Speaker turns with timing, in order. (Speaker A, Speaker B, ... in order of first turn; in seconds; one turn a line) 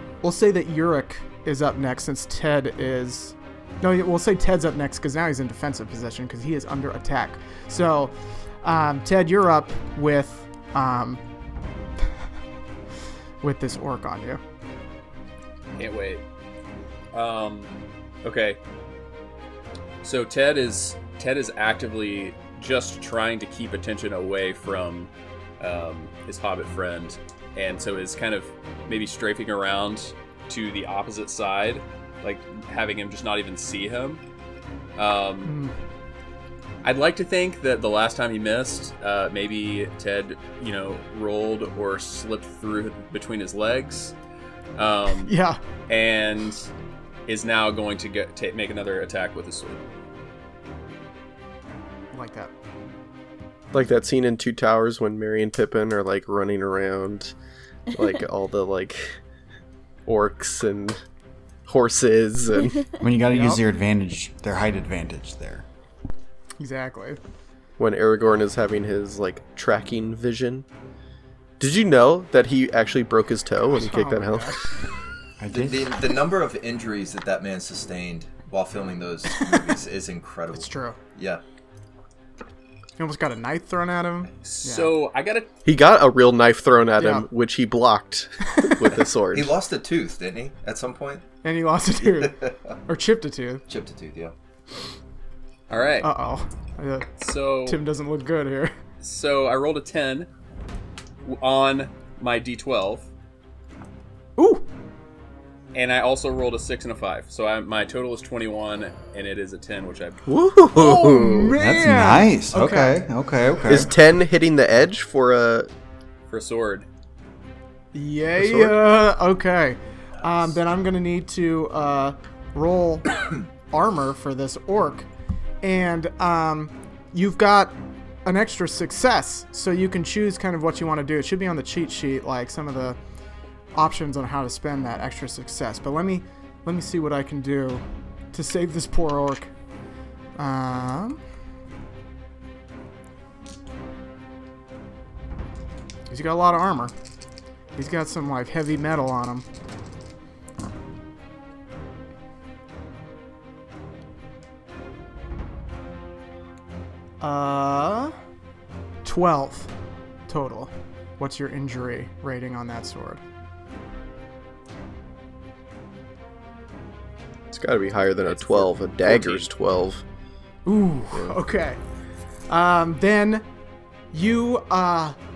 Speaker A: 0.2-11.2
Speaker A: 13.4-14.4
Speaker B: 15.8-16.2
Speaker B: 17.1-17.7
Speaker B: 18.2-18.6
Speaker B: 20.0-34.2
Speaker B: 35.0-35.5
Speaker A: 35.4-35.7
Speaker B: 36.8-44.1
Speaker B: 44.8-45.3
Speaker A: 45.2-45.6
Speaker B: 45.9-46.7
Speaker B: 47.3-49.8
Speaker A: 52.1-52.5
Speaker C: 53.7-57.4
Speaker C: 57.9-59.2
Speaker C: 60.1-61.0
Speaker C: 61.7-62.9
Speaker D: 63.0-65.7
Speaker A: 63.3-63.6
Speaker A: 66.6-67.2
Speaker C: 67.8-70.7
Speaker C: 71.6-74.7
Speaker A: 73.7-74.6
Speaker D: 75.4-76.0
Speaker E: 75.5-81.4
Speaker A: 80.5-81.0
Speaker A: 83.0-84.9
Speaker B: 84.4-85.5
Speaker C: 85.7-89.6
Speaker A: 87.0-87.3
Speaker A: 88.5-88.9
Speaker E: 89.3-91.2
Speaker A: 91.4-93.7
Speaker E: 92.2-92.7
Speaker E: 93.7-94.3
Speaker B: 95.7-96.1
Speaker A: 96.0-97.1
Speaker B: 97.2-97.8
Speaker A: 97.7-98.7
Speaker B: 99.0-100.3
Speaker B: 101.2-103.1
Speaker A: 104.4-104.7
Speaker B: 105.7-110.2
Speaker C: 110.3-111.5
Speaker A: 110.7-113.0
Speaker D: 111.6-113.9
Speaker C: 113.7-115.7
Speaker B: 116.3-116.9
Speaker A: 117.9-125.1
Speaker C: 118.4-118.8
Speaker A: 125.6-127.7
Speaker A: 128.2-133.0
Speaker A: 133.8-139.5
Speaker A: 140.4-141.2
Speaker A: 146.1-146.9
Speaker A: 147.7-149.5
Speaker A: 157.2-158.2
Speaker A: 159.1-159.7
Speaker A: 160.3-163.2
Speaker C: 167.5-170.0
Speaker B: 168.2-169.5
Speaker A: 170.7-171.8
Speaker A: 172.5-173.4
Speaker A: 174.1-175.2